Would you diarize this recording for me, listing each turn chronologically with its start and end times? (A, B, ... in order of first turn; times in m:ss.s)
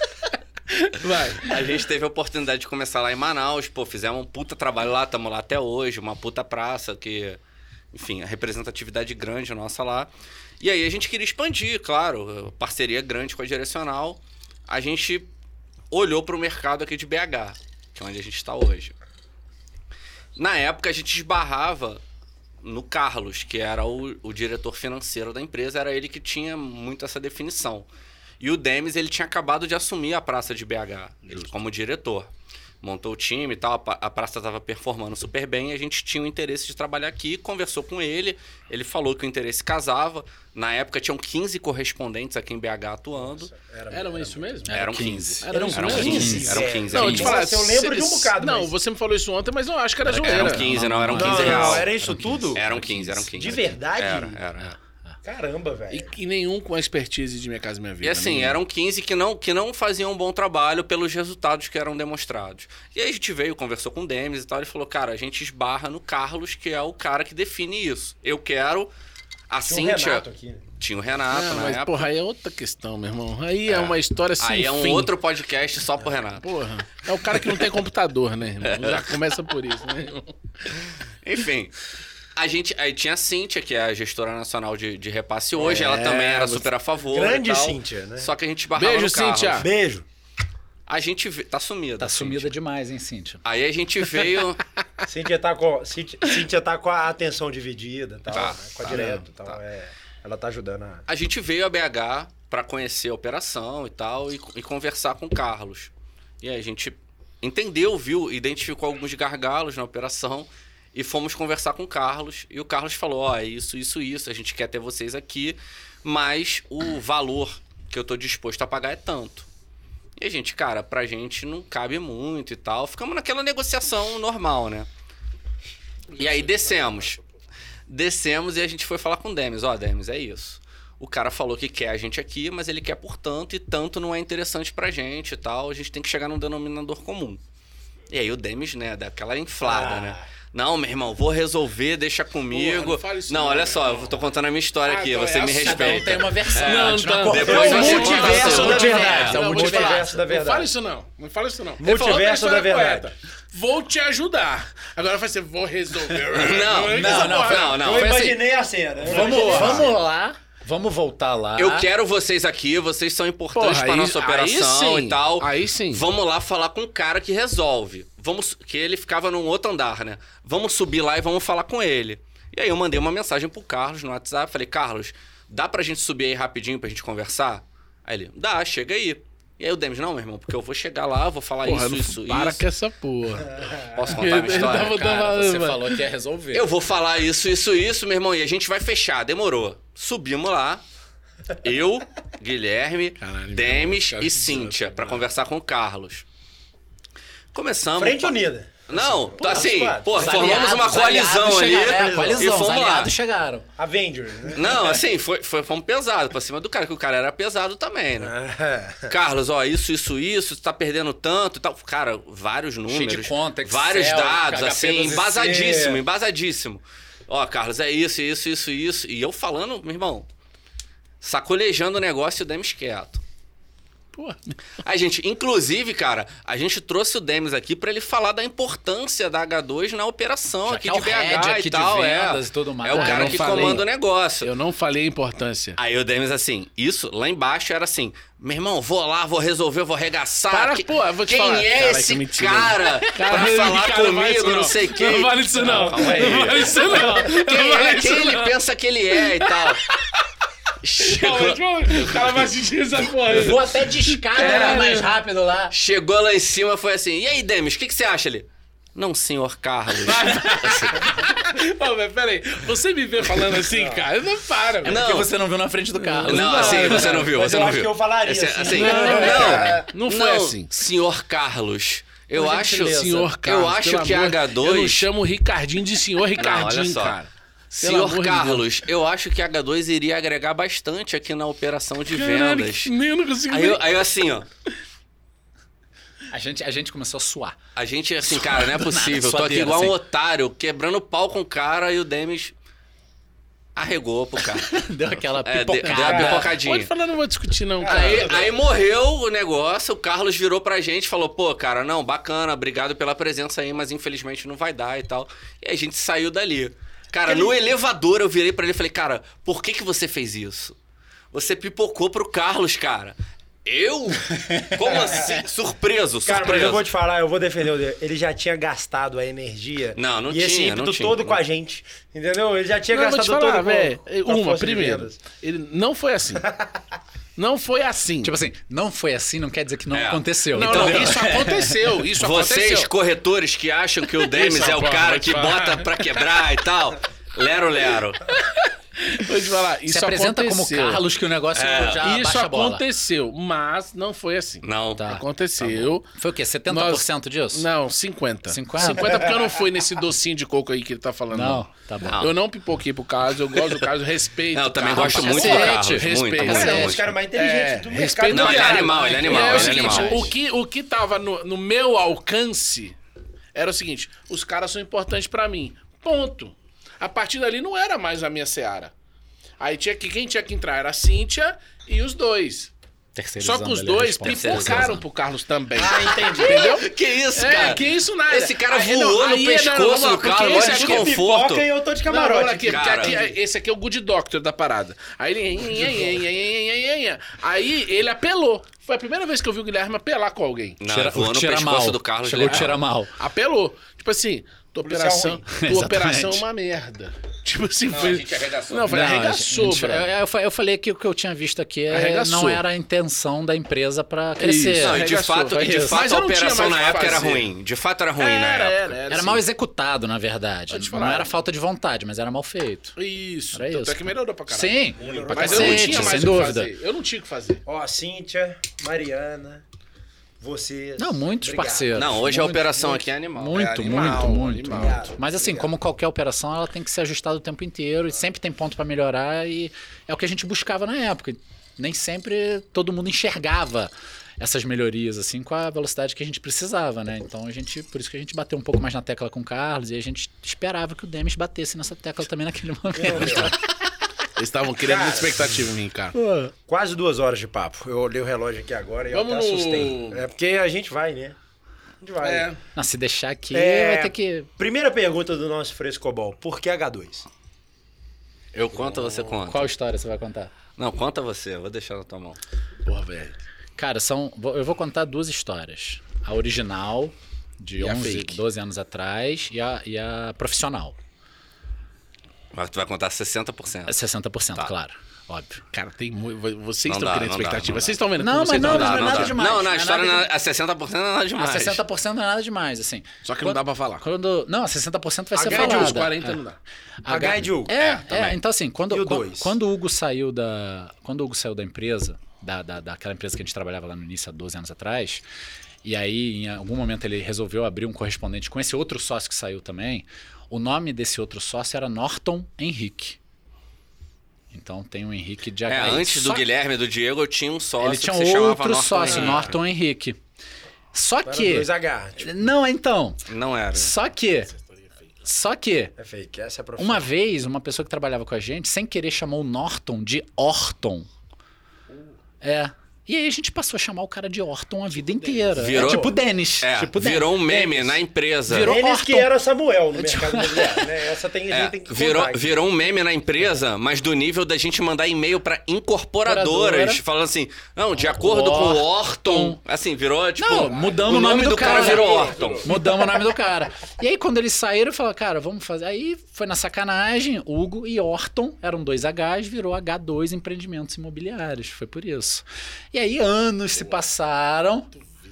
0:00.7-0:01.6 A
0:01.4-0:07.4 B
0:07.9-0:15.3 B
0:15.9-0:19.0 B
0:20.4-0:22.0 B
0:22.6-0:27.9 B
0:28.4-0:32.3 B
0:32.8-0:43.5 B
0:43.2-0:44.7 C
0:43.9-0:44.8 A
0:44.7-0:47.3 D
0:44.7-0:47.4 B
0:45.4-0:50.7 A
0:45.5-0:48.7 C
0:50.0-0:53.6 D
0:50.2-0:51.9 B
0:51.1-0:52.6 C
0:52.6-0:54.8 B
0:53.3-0:54.4 C
0:55.2-0:56.2 C
0:55.9-0:58.6 A
0:58.0-1:08.9 B
1:09.5-1:10.2 B
1:09.6-1:10.6 C
1:10.8-1:12.0 B
1:11.3-1:15.1 A
1:13.7-1:16.5 B
1:16.4-1:20.8 A
1:17.3-1:17.6 B
1:18.6-1:19.1 B
1:21.2-1:21.8 B
1:22.4-1:29.7 B
1:25.6-1:26.7 A
1:27.1-1:28.3 C
1:28.8-1:29.7 A
1:29.6-1:30.1 C
1:30.9-1:32.5 B
1:32.0-1:33.4 D
1:33.4-1:34.6 B
1:35.1-1:41.0 C
1:38.3-1:39.6 B
1:41.1-1:59.5 B
2:00.2-2:04.9 B
2:06.2-2:07.2 B
2:06.2-2:07.2 A
2:07.9-2:17.4 B
2:18.1-2:29.4 B
2:19.6-2:20.2 C
2:22.5-2:24.2 A
2:24.9-2:37.8 A
2:25.6-2:30.1 D
2:27.4-2:30.7 C
2:31.8-2:33.1 C
2:36.3-2:38.2 B
2:36.9-2:38.4 D
2:37.3-2:40.0 C
2:39.0-2:41.9 D
2:39.1-2:39.9 A
2:41.6-3:02.6 B
2:43.5-2:46.1 A
3:01.6-3:06.0 A
3:03.9-3:05.1 B
3:04.4-3:06.6 D
3:06.5-3:10.8 B
3:11.6-3:16.2 B
3:13.2-3:15.2 A
3:17.5-3:23.1 B
3:18.0-3:21.0 C
3:20.1-3:23.7 D
3:21.7-3:22.5 C
3:23.8-3:25.0 C
3:24.6-3:28.4 B
3:28.2-3:29.1 C
3:29.1-3:40.3 B
3:32.9-3:35.5 D
3:35.2-3:36.0 C
3:41.2-3:43.2 B
3:44.1-3:44.6 A
3:44.8-3:54.5 B
3:50.7-3:53.8 D
3:52.9-3:53.9 A
3:54.4-3:55.8 A
3:55.8-4:09.8 B
4:00.5-4:08.6 A
4:05.9-4:06.4 C
4:09.2-4:09.9 A
4:10.8-4:12.4 B
4:11.0-4:15.1 A
4:13.3-4:15.7 D
4:14.4-4:14.8 B
4:15.7-4:21.1 B
4:20.0-4:25.0 A
4:23.7-4:24.1 C
4:24.8-4:25.3 B
4:24.8-4:27.2 D
4:26.0-4:27.3 A
4:26.3-4:35.1 B
4:26.9-4:29.9 C
4:28.7-4:30.7 A
4:32.3-4:33.3 D
4:32.8-4:38.7 A
4:36.4-4:37.2 B
4:37.8-4:42.9 B
4:42.1-4:43.8 A
4:43.5-4:44.5 B
4:46.3-4:47.6 D
4:47.8-4:52.5 B
4:48.2-4:50.0 D
4:53.8-4:54.8 B
4:54.6-4:56.5 D
4:55.4-4:56.9 B
4:55.9-4:58.5 A
4:57.8-4:58.6 C
4:57.8-5:10.8 B
5:07.2-5:07.6 C
5:11.3-5:16.8 B
5:14.4-5:14.8 D
5:14.9-5:15.3 C
5:16.2-5:25.2 C
5:20.0-5:21.4 B
5:22.9-5:26.5 A
5:27.4-5:28.4 A
5:28.2-5:31.8 D
5:29.9-5:31.3 B
5:30.5-5:32.9 A
5:32.2-5:38.3 B
5:34.2-5:36.2 A
5:39.1-5:41.0 A
5:39.9-5:42.8 D
5:41.6-5:42.1 B
5:42.0-5:46.1 A
5:44.6-5:45.0 B
5:45.0-5:47.7 D
5:46.7-5:51.7 A
5:48.5-5:49.3 D
5:51.3-5:52.2 D
5:52.0-5:52.4 B
5:52.2-6:03.0 A
5:54.5-5:57.1 B
5:54.9-5:57.0 D
5:56.5-6:00.2 C
5:58.3-6:00.3 B
5:59.3-6:00.3 D
6:03.5-6:08.9 A
6:09.6-6:12.7 A
6:13.2-6:15.0 D
6:13.4-6:21.2 A
6:14.2-6:15.0 B
6:15.7-6:16.9 C
6:16.0-6:21.6 B
6:20.5-6:23.3 C
6:22.1-6:30.8 A
6:22.7-6:23.2 B
6:25.7-6:26.1 C
6:30.8-6:32.8 B
6:30.9-6:33.2 D
6:32.5-6:40.1 A
6:34.8-6:35.5 C
6:35.5-6:36.4 D
6:37.9-6:39.2 B
6:38.9-6:46.0 D
6:41.9-6:42.6 A
6:44.4-6:47.5 A
6:44.8-6:49.0 B
6:48.2-6:49.4 A
6:49.1-6:53.0 D
6:50.7-6:51.3 A
6:53.0-6:57.6 A
6:53.5-6:56.7 D
6:55.0-6:56.5 C
6:55.4-6:56.3 B
6:57.7-6:59.6 C
7:00.4-7:02.2 C
7:01.0-7:23.6 D
7:01.9-7:04.0 B
7:03.5-7:05.1 A
7:04.7-7:05.7 C
7:22.9-7:23.6 C
7:24.4-7:26.2 A
7:24.8-7:25.5 C
7:26.2-7:26.5 D
7:26.7-7:31.4 C
7:29.1-7:30.2 A
7:32.0-7:32.5 C
7:32.2-7:32.6 A
7:32.8-7:34.5 D
7:33.5-7:37.3 C
7:38.5-7:39.7 B
7:38.7-7:39.4 A
7:39.5-7:40.5 D
7:40.8-7:42.4 B
7:42.8-7:43.4 A
7:43.8-7:51.0 D
7:47.8-7:48.4 A
7:52.5-7:53.9 B
7:53.9-7:55.6 D
7:55.7-7:59.4 A
7:56.9-7:58.0 B
7:58.2-8:00.3 D
7:58.6-8:01.8 B
8:01.4-8:06.4 D
8:03.2-8:04.0 A
8:05.4-8:06.1 C
8:05.4-8:06.6 A
8:07.0-8:15.2 D
8:07.1-8:07.8 C
8:07.8-8:08.4 B
8:08.9-8:09.6 C
8:15.8-8:23.2 D
8:24.5-8:26.4 D
8:25.7-8:29.5 B
8:27.8-8:30.2 D
8:30.9-8:33.2 D
8:31.2-8:32.4 C
8:33.3-8:33.9 B
8:33.7-8:34.5 D
8:35.2-8:35.9 D
8:36.0-8:37.1 C
8:36.8-8:41.1 D
8:42.4-8:49.3 D
8:45.2-8:45.6 A
8:45.6-8:48.8 B
8:45.8-8:46.1 C
8:48.6-8:52.6 C
8:50.0-8:50.9 D
8:51.5-9:02.8 B
8:56.2-8:57.0 D
8:58.0-8:59.6 D
9:00.4-9:14.9 D
9:00.7-9:02.7 A